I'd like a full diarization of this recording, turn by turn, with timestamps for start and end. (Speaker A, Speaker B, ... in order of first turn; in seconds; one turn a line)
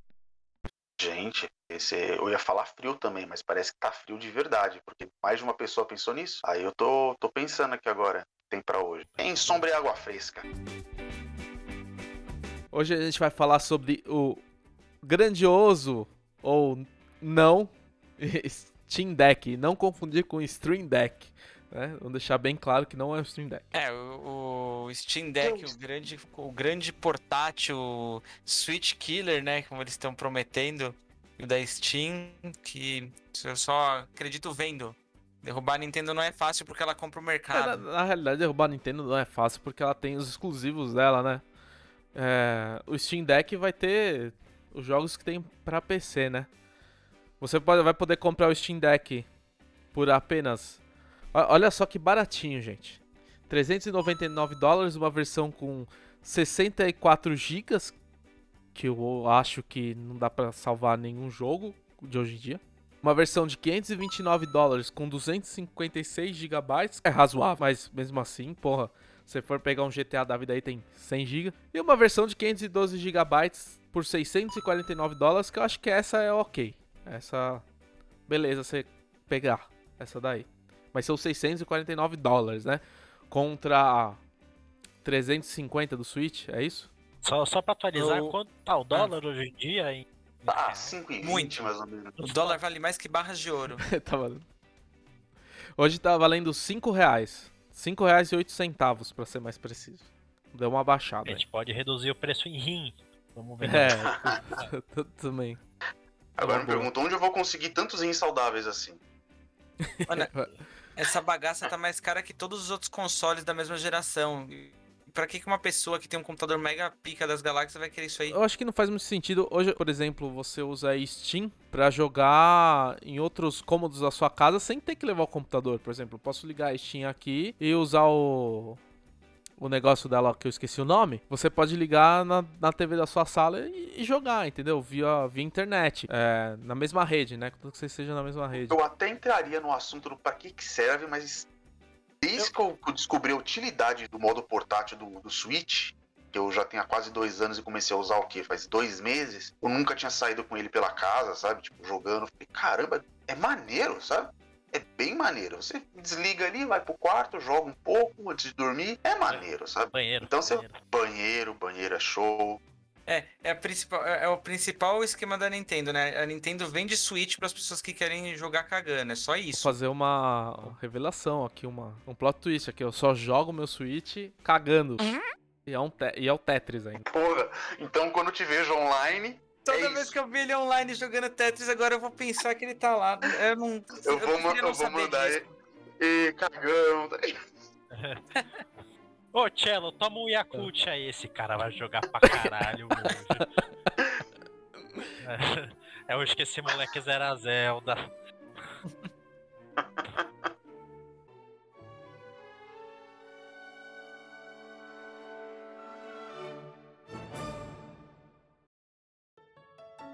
Speaker A: 1.0-10.4
Speaker B: 9.1-9.7
Speaker C: 12.7-14.4
Speaker C: 15.0-23.7
Speaker D: 23.7-37.8
Speaker A: 25.4-25.7
Speaker C: 37.5-41.4
Speaker C: 42.1-46.5
Speaker C: 47.4-49.3
Speaker C: 49.9-50.8
Speaker C: 51.3-58.0
Speaker C: 58.7-77.6
Speaker C: 78.3-84.2
Speaker C: 85.0-86.9
Speaker B: 87.2-91.0
Speaker D: 87.9-88.3
Speaker A: 90.5-92.2
Speaker D: 91.2-93.8
Speaker C: 93.8-94.4
Speaker C: 95.8-101.4
Speaker B: 101.2-104.7
Speaker C: 103.6-105.6
Speaker A: 106.4-109.0
Speaker C: 106.4-106.9
Speaker C: 110.0-110.5
Speaker D: 111.0-118.4
Speaker C: 118.3-128.8
Speaker C: 129.6-138.8
Speaker A: 138.6-141.5
Speaker A: 142.2-162.6
Speaker B: 159.2-160.8
Speaker D: 163.1-169.8
Speaker C: 169.5-177.0
Speaker A: 177.0-180.1
Speaker D: 179.7-185.4
Speaker A: 184.0-187.4
Speaker B: 187.9-188.2
Speaker B: 189.3-193.5
Speaker B: 195.2-198.0
Speaker A: 199.8-200.2